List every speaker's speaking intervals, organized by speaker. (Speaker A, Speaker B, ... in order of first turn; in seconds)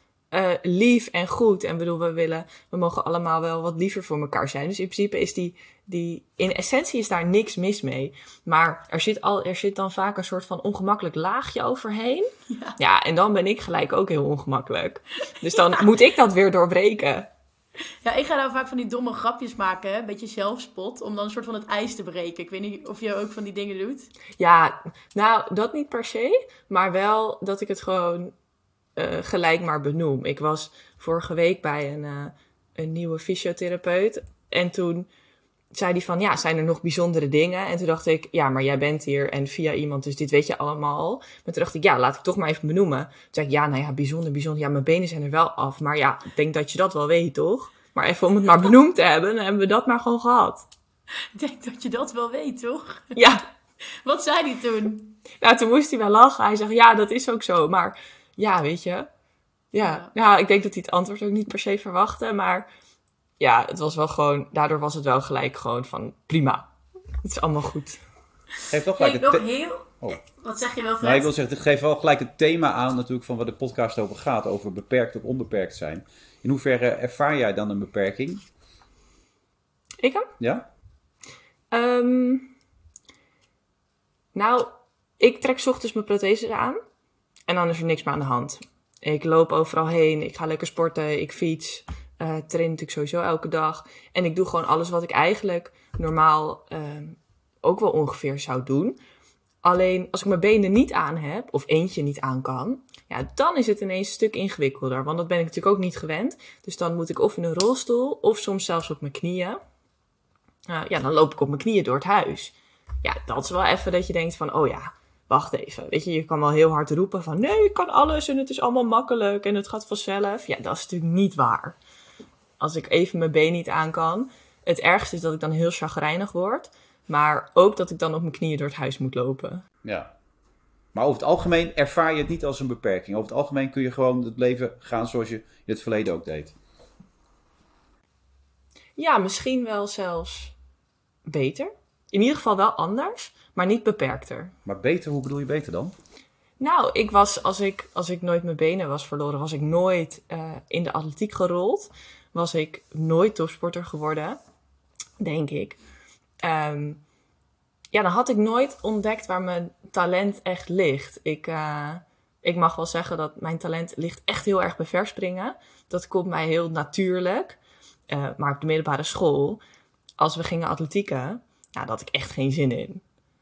Speaker A: 0.3-17.3, 24.4-28.3, 29.0-35.1, 35.7-50.7, 53.1-53.4, 55.4-59.1, 59.7-62.7, 63.4-66.7, 67.2-68.0, 80.0-80.3, 81.7-82.5, 84.3-86.8, 87.5-99.0, 99.6-109.6, 110.7-121.8, 122.6-129.7, 139.0-140.6, 141.2-144.5, 146.6-154.4, 155.2-155.8, 156.4-157.0, 157.9-167.6, 168.1-169.6, 170.2-173.0
Speaker B: 12.5-12.8, 18.0-24.1, 51.4-53.1, 54.0-55.2, 59.8-60.1, 69.0-71.3
Speaker C: 68.7-69.5, 71.0-78.4, 80.4-80.7, 129.8-130.1, 130.9-136.6, 144.7-145.9